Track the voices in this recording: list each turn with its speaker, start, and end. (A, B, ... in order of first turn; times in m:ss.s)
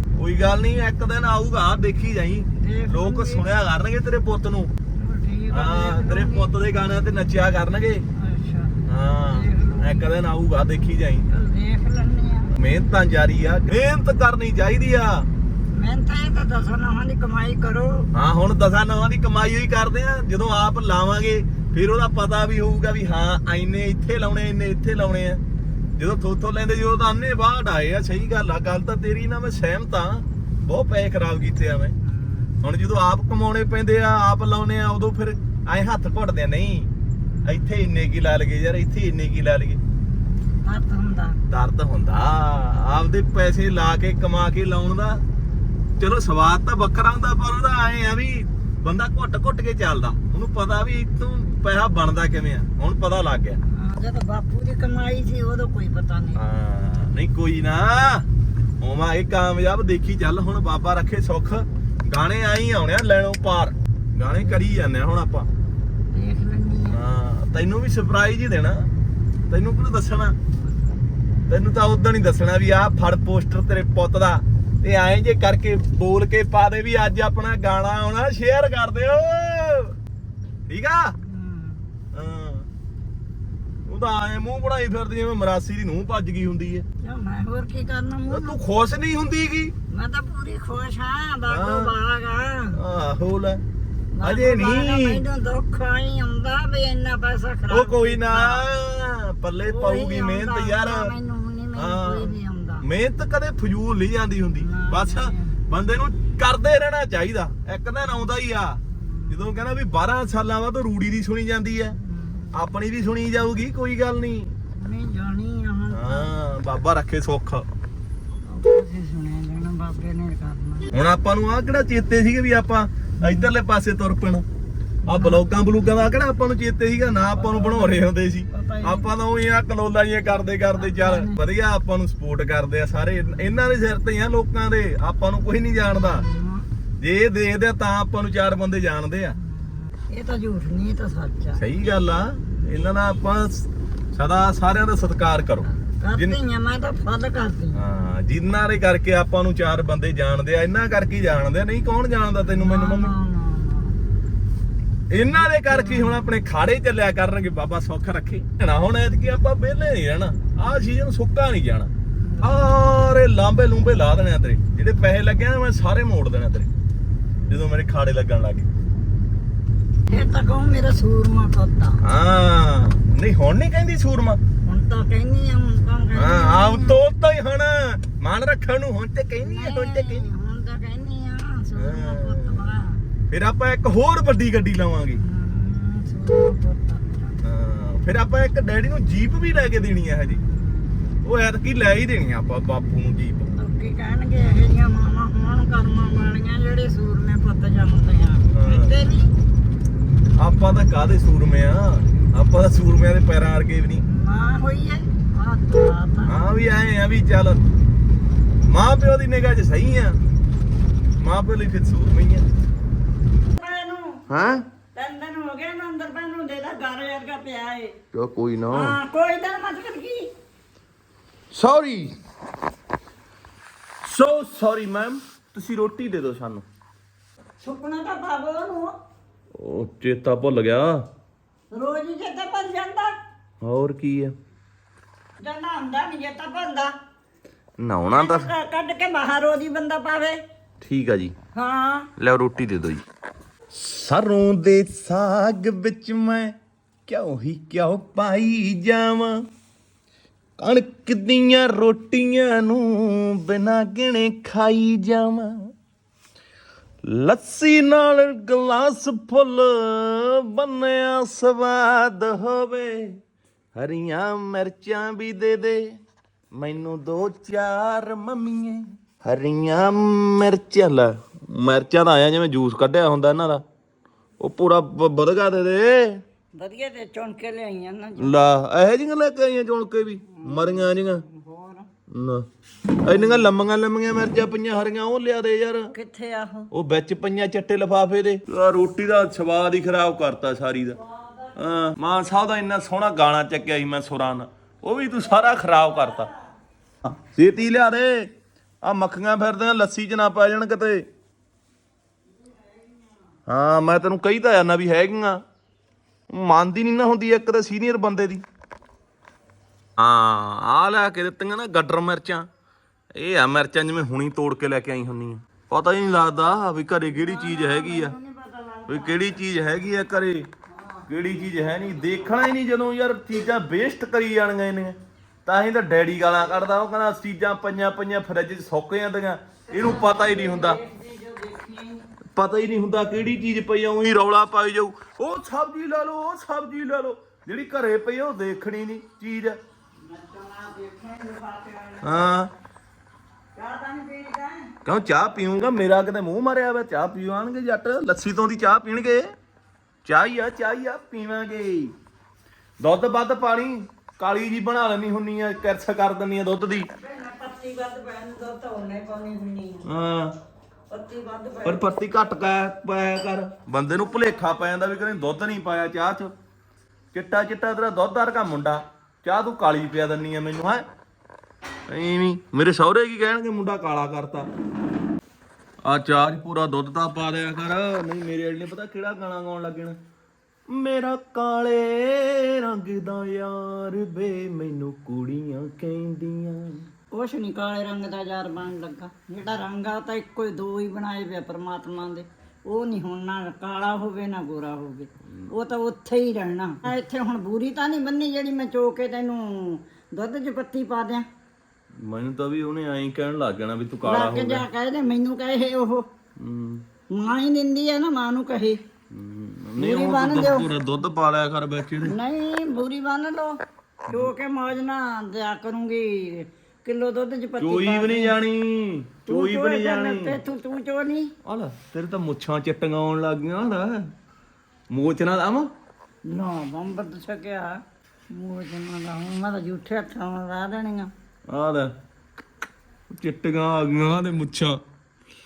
0:00.2-0:04.7 A
0:02.6-0:03.5 B
0:05.0-0:06.5 B
0:05.5-0:08.0 A
0:08.1-0:10.0 B
0:08.9-0:11.3 A
0:11.3-0:12.5 B
0:12.5-0:15.3 A
0:15.7-0:18.1 B
0:18.1-0:25.4 A
0:26.0-0:31.9 A
0:32.0-0:32.6 B
0:32.6-0:36.9 A
0:37.4-0:39.8 A
0:40.6-0:41.4 B
0:41.5-0:45.2 A
0:46.0-0:53.6 A
0:53.7-0:56.4 B
0:56.3-0:58.3 A
0:58.8-1:05.5 A
1:06.1-1:07.0 B
1:06.9-1:08.9 A
1:09.5-1:10.4 A
1:11.5-1:19.9 A
1:20.7-1:21.2 A
1:21.2-1:21.8 B
1:22.1-1:22.7 A
1:23.8-1:26.8 A
1:27.0-1:28.6 B
1:28.3-1:29.7 A
1:29.9-1:32.8 B
1:31.5-1:31.9 A
1:32.7-1:33.6 A
1:34.1-1:38.6 B
1:34.2-1:35.2 A
1:37.7-1:41.1 A
1:39.6-1:42.8 B
1:41.7-1:52.0 A
1:44.6-1:45.6 B
1:48.9-1:49.5 B
1:51.9-1:52.6 B
1:52.5-1:54.5 A
1:54.7-1:56.3 B
1:55.9-1:57.6 A
1:58.4-2:00.9 B
2:00.9-2:04.4 A
2:03.2-2:03.5 B
2:05.0-2:05.4 B
2:05.0-2:16.2 A
2:07.3-2:09.1 B
2:10.8-2:11.4 B
2:16.0-2:16.7 B
2:17.0-2:19.4 A
2:19.4-2:21.6 B
2:21.6-2:26.4 A
2:25.9-2:27.8 B
2:27.7-2:33.1 A
2:32.4-2:34.0 B
2:35.1-2:41.9 A
2:35.3-2:36.2 B
2:42.2-2:42.6 B
2:42.4-2:46.7 A
2:47.5-2:48.7 A
2:50.1-2:52.0 B
2:52.0-2:54.4 A
2:54.6-2:57.0 B
2:56.1-3:00.3 A
2:59.4-3:03.0 B
3:01.8-3:02.7 A
3:03.3-3:05.2 A
3:05.2-3:07.4 B
3:07.4-3:10.4 A
3:10.2-3:11.0 B
3:11.2-3:13.5 A
3:13.5-3:19.3 B
3:18.5-3:18.9 A
3:20.4-3:24.0 A
3:24.0-3:26.4 B
3:26.2-3:27.6 A
3:28.7-3:30.2 A
3:31.2-3:32.4 A
3:33.5-3:34.2 B
3:34.3-3:34.6 A
3:34.9-3:38.0 B
3:38.1-3:39.0 A
3:38.7-3:40.3 B
3:41.5-3:42.2 A
3:44.0-3:46.6 A
3:47.6-3:48.9 B
3:49.5-3:51.0 A
3:51.7-3:53.1 B
3:53.6-3:54.3 A
3:55.4-3:56.9 B
3:57.8-3:58.5 A
3:58.1-4:00.4 B
4:00.8-4:01.3 A
4:01.5-4:02.1 B
4:02.2-4:03.0 A
4:03.7-4:06.6 A
4:07.1-4:09.4 A
4:10.6-4:15.7 A
4:17.0-4:23.2 A
4:23.7-4:26.0 A
4:26.5-4:33.6 A
4:34.4-4:36.2 A
4:36.6-4:38.3 B
4:38.2-4:41.2 A
4:40.3-4:41.9 B
4:42.1-4:42.4 A
4:43.0-4:45.9 A
4:43.1-4:43.4 B
4:45.9-4:46.7 B
4:46.7-4:51.0 A
4:51.0-4:51.6 B
4:51.5-4:56.3 A
4:55.4-4:56.5 B
4:57.0-4:58.3 A
4:58.8-5:01.0 A
5:02.3-5:03.3 B
5:03.5-5:05.4 A
5:06.3-5:08.4 A
5:10.0-5:12.5 A
5:13.1-5:18.1 A
5:17.1-5:19.3 B
5:18.9-5:20.5 A
5:20.7-5:21.9 B
5:21.1-5:30.8 A
5:29.7-5:32.0 B
5:32.3-5:39.6 A
5:40.0-5:42.3 B
5:42.0-5:42.5 A
5:43.5-5:44.7 B
5:44.8-5:49.3 A
5:50.0-5:51.9 A
5:52.8-5:56.9 A
5:56.9-5:59.9 B
5:59.8-6:00.4 A
6:00.9-6:01.9 B
6:01.6-6:06.3 A
6:04.0-6:04.6 B
6:07.1-6:10.8 A
6:11.9-6:14.5 A
6:15.8-6:20.0 A
6:20.7-6:26.9 A
6:27.1-6:41.2 B
6:42.0-6:44.6 A
6:44.0-6:46.1 B
6:46.4-6:46.8 A
6:47.1-6:48.8 B
6:49.1-6:52.2 A
6:49.8-6:50.7 B
6:52.0-6:58.4 B
6:54.1-6:54.3 A
6:57.6-7:00.4 A
6:59.3-7:01.3 B
7:01.4-7:04.1 A
7:04.9-7:05.7 A
7:06.2-7:07.8 B
7:08.3-7:11.1 B
7:11.5-7:11.9 A
7:13.1-7:14.8 A